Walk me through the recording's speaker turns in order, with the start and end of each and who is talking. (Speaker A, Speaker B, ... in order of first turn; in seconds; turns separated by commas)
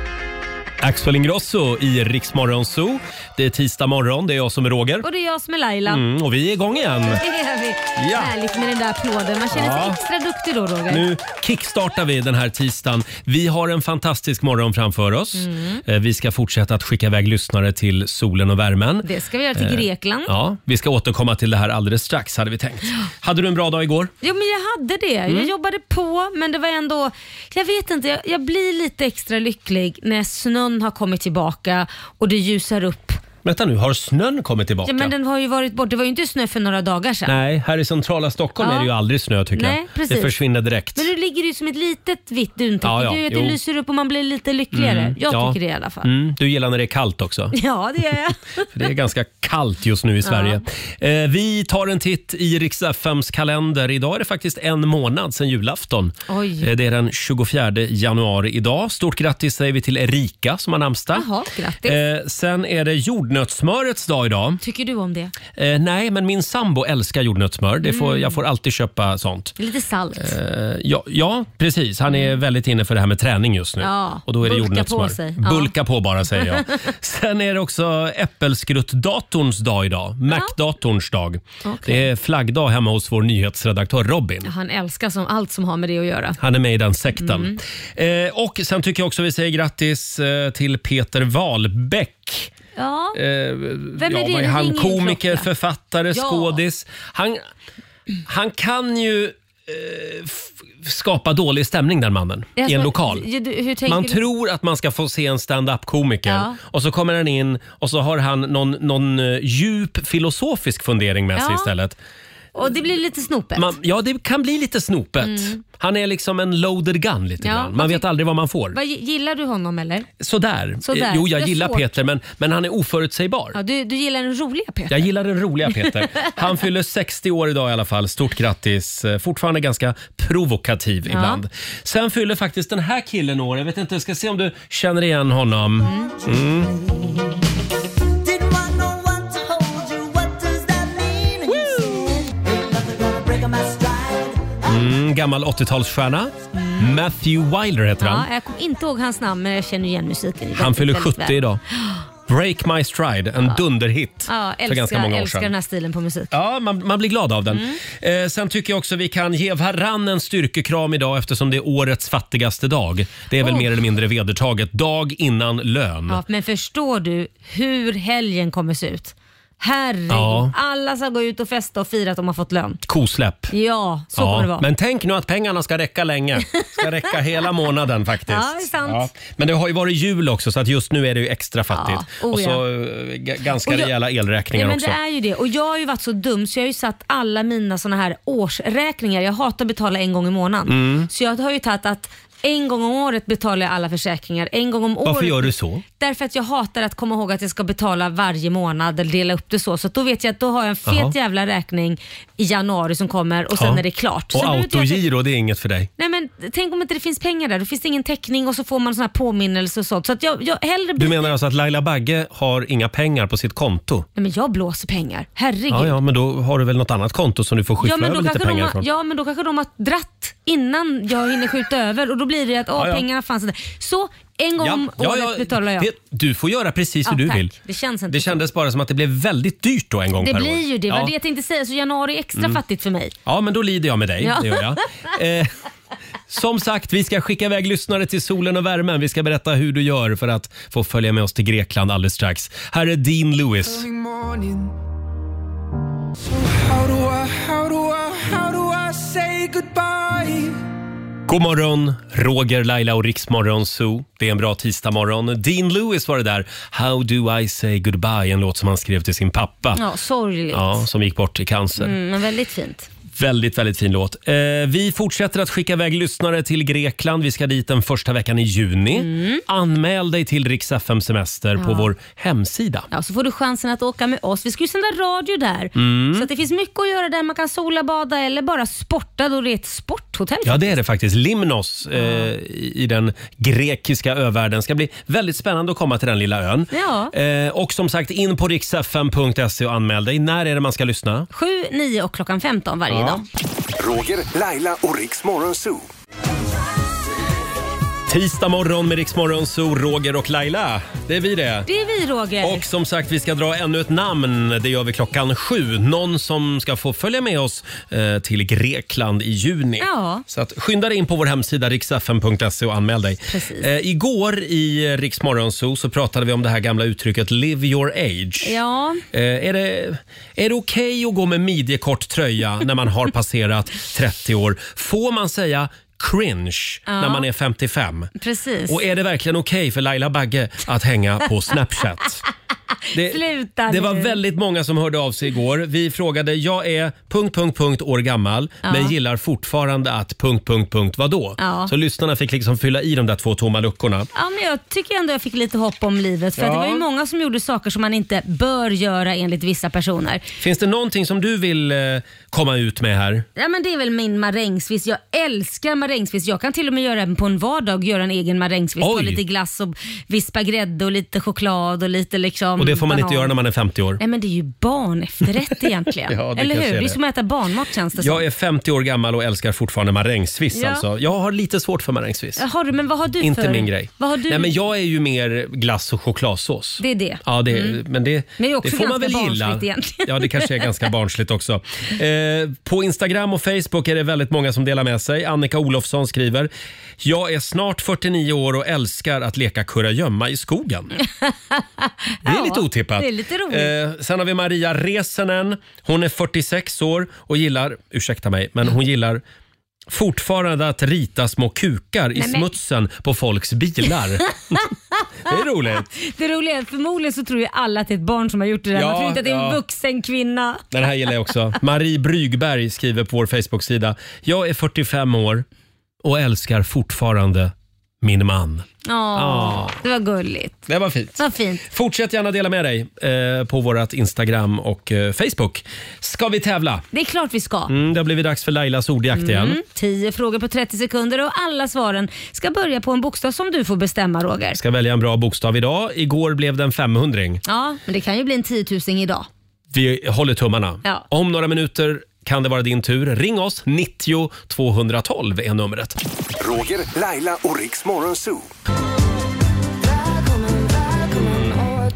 Speaker A: 0.8-5.0, Speaker B: 5.0-6.0, Speaker A: 5.9-7.2, Speaker B: 7.1-11.1, Speaker A: 8.0-8.3, Speaker A: 9.5-10.0, Speaker A: 10.9-24.1, Speaker B: 15.3-15.8, Speaker B: 19.0-20.3, Speaker B: 24.2-33.2, Speaker A: 33.4-35.1, Speaker B: 34.9-37.4, Speaker A: 37.2-41.1, Speaker B: 38.6-38.9, Speaker B: 39.5-40.4, Speaker B: 40.9-46.1, Speaker A: 42.8-43.6, Speaker A: 44.7-47.5, Speaker B: 47.5-48.9, Speaker A: 48.7-61.2, Speaker B: 50.2-50.6, Speaker B: 56.3-56.7, Speaker B: 61.1-62.0, Speaker A: 61.8-64.6, Speaker B: 64.6-65.3, Speaker A: 65.5-69.5, Speaker B: 67.8-68.4, Speaker B: 69.6-70.3, Speaker A: 70.2-84.5, Speaker B: 72.1-72.3, Speaker B: 73.8-75.7, Speaker B: 76.4-76.6, Speaker B: 80.3-80.5, Speaker B: 81.6-82.1, Speaker B: 84.4-86.4, Speaker A: 86.4-92.5, Speaker B: 87.2-87.6, Speaker B: 92.8-93.2, Speaker A: 93.1-97.4, Speaker B: 94.0-95.5, Speaker B: 96.1-96.6, Speaker A: 98.3-103.3, Speaker B: 102.6-104.2, Speaker A: 103.9-112.0, Speaker B: 106.3-106.6, Speaker B: 111.3-111.7, Speaker B: 112.5-113.7, Speaker A: 113.5-118.8, Speaker B: 115.2-115.6, Speaker B: 117.4-118.0, Speaker B: 118.7-120.1, Speaker A: 120.2-123.6, Speaker B: 120.8-121.9, Speaker B: 123.5-125.1, Speaker A: 124.9-136.7, Speaker B: 125.8-126.3, Speaker B: 131.1-131.4, Speaker B: 135.8-136.1, Speaker C: 136.7-137.4, Speaker C: 138.2-144.8, Speaker A: 144.7-148.3, Speaker B: 146.5-147.0, Speaker B: 148.0-152.0, Speaker A: 150.6-151.6, Speaker A: 152.3-155.5, Speaker B: 154.3-156.3, Speaker A: 156.3-166.2, Speaker B: 157.5-157.8, Speaker B: 163.4-163.7, Speaker B: 166.1-172.8, Speaker A: 170.1-170.5, Speaker A: 172.8-173.5, Speaker B: 173.5-174.6, Speaker A: 174.1-185.0, Speaker B: 176.5-177.1, Speaker B: 178.3-179.1, Speaker B: 181.7-182.6, Speaker B: 183.6-183.9, Speaker B: 184.5-205.1, Speaker A: 190.7-191.1, Speaker A: 195.0-195.8, Speaker A: 200.8-201.1, Speaker A: 203.6-203.8, Speaker A: 204.3-205.9, Speaker B: 206.0-211.3, Speaker A: 211.0-214.1, Speaker B: 214.2-215.9, Speaker A: 215.7-218.8, Speaker B: 217.8-225.9, Speaker A: 222.7-223.1, Speaker A: 224.6-227.5, Speaker B: 227.1-228.4, Speaker A: 228.1-231.1, Speaker B: 230.2-233.1, Speaker A: 233.2-235.5, Speaker B: 234.2-234.8, Speaker A: 236.3-243.8, Speaker D: 243.8-244.6, Speaker D: 246.7-250.4, Speaker A: 251.3-259.8, Speaker B: 259.7-260.9, Speaker A: 260.5-261.9, Speaker B: 261.8-262.9, Speaker A: 263.1-272.9, Speaker B: 268.9-269.4, Speaker B: 271.6-271.9, Speaker B: 272.9-280.8, Speaker A: 275.8-276.3, Speaker A: 280.4-291.3, Speaker B: 281.9-282.3, Speaker B: 286.7-287.1, Speaker B: 291.3-293.2, Speaker A: 292.9-293.2, Speaker E: 293.8-295.9, Speaker A: 298.1-301.7, Speaker B: 301.7-302.6, Speaker A: 302.4-318.6, Speaker B: 309.8-310.2, Speaker B: 313.3-313.7, Speaker B: 318.4-319.0, Speaker A: 319.1-328.1, Speaker B: 326.9-327.2, Speaker B: 328.1-328.8, Speaker A: 328.7-332.2, Speaker B: 332.9-334.2, Speaker A: 332.9-344.1, Speaker B: 338.6-338.9, Speaker B: 341.4-341.7, Speaker B: 344.1-350.2, Speaker A: 346.4-346.8, Speaker A: 350.4-353.2, Speaker B: 353.4-363.3, Speaker A: 358.8-359.2, Speaker A: 362.6-364.0, Speaker B: 364.0-368.2, Speaker A: 366.1-367.0, Speaker A: 368.0-372.4, Speaker B: 370.5-370.8, Speaker B: 372.4-374.5, Speaker A: 373.2-386.5, Speaker B: 376.8-377.8, Speaker B: 378.4-380.6, Speaker A: 387.0-390.9, Speaker B: 391.0-393.7, Speaker A: 392.2-399.2, Speaker A: 399.9-404.6, Speaker B: 402.1-402.5, Speaker B: 404.2-404.6, Speaker A: 405.3-405.9, Speaker B: 405.9-410.6, Speaker A: 408.7-409.6, Speaker A: 410.7-415.4, Speaker A: 416.0-419.8, Speaker B: 418.9-420.6, Speaker A: 420.7-426.8, Speaker B: 421.2-421.6, Speaker B: 426.9-427.7, Speaker A: 427.7-429.6, Speaker B: 429.1-434.6, Speaker A: 434.6-437.4, Speaker B: 437.4-439.3, Speaker A: 439.7-446.0, Speaker E: 446.4-448.5, Speaker C: 450.3-451.5